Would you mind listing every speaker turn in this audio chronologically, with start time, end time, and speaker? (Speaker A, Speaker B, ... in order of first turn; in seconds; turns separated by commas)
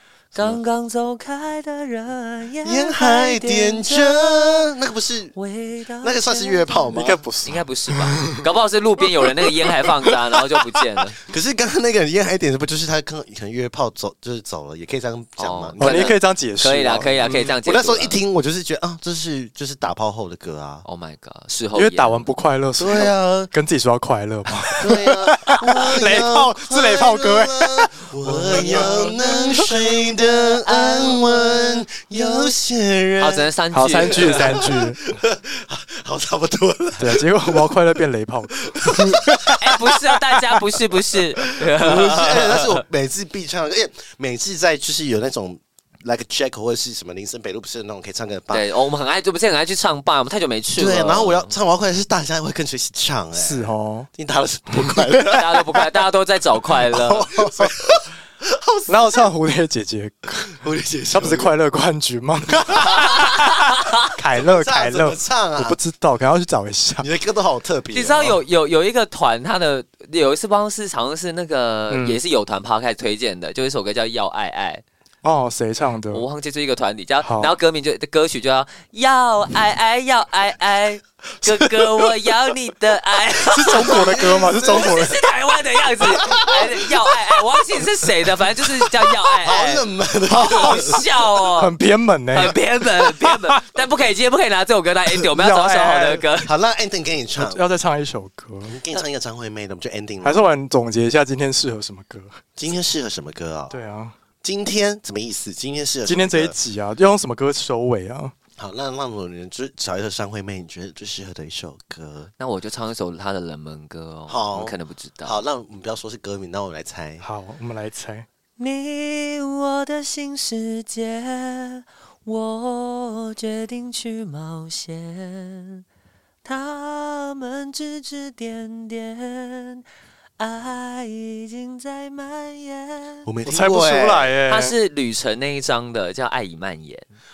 Speaker A: 0.3-4.6, Speaker B: 2.6-5.3, Speaker A: 5.3-11.2, Speaker B: 6.0-7.2, Speaker C: 6.9-8.4, Speaker B: 11.2-16.1, Speaker A: 15.4-18.1, Speaker C: 15.8-17.6, Speaker B: 17.6-20.8, Speaker A: 20.8-22.3, Speaker C: 21.7-29.8, Speaker B: 22.8-23.5, Speaker B: 24.7-33.5, Speaker A: 28.6-29.1, Speaker A: 30.6-31.6, Speaker A: 33.2-34.7, Speaker C: 33.7-35.1, Speaker B: 34.0-37.8, Speaker C: 37.0-39.5, Speaker B: 38.6-39.8, Speaker A: 39.6-42.8, Speaker B: 41.2-48.6, Speaker A: 48.5-51.5, Speaker B: 50.8-55.6, Speaker C: 53.3-54.1, Speaker C: 54.8-55.2, Speaker A: 55.3-57.3, Speaker B: 56.9-59.2, Speaker C: 58.9-60.5, Speaker B: 60.5-61.5, Speaker C: 61.1-67.1, Speaker A: 62.8-64.0, Speaker B: 64.3-65.8, Speaker B: 67.0-68.4, Speaker A: 67.9-74.8, Speaker C: 71.9-72.2, Speaker C: 75.2-76.2, Speaker A: 76.1-91.7, Speaker C: 77.2-77.5, Speaker C: 83.5-85.2, Speaker B: 83.7-85.2, Speaker B: 86.0-86.9, Speaker B: 89.4-91.0, Speaker C: 90.6-91.0, Speaker C: 91.6-93.6, Speaker A: 92.3-96.5, Speaker C: 95.1-96.2, Speaker B: 96.4-97.6, Speaker C: 97.4-98.8, Speaker B: 98.6-100.5, Speaker C: 100.2-102.4, Speaker B: 102.6-103.7, Speaker C: 103.7-104.1, Speaker B: 104.4-106.5, Speaker C: 106.0-108.3, Speaker B: 108.6-112.3, Speaker A: 112.4-115.4, Speaker B: 114.3-117.2, Speaker C: 117.2-118.2, Speaker A: 118.6-125.8, Speaker A: 126.4-129.8, Speaker A: 130.4-133.3, Speaker B: 133.2-134.4, Speaker C: 133.4-134.7, Speaker A: 134.5-137.1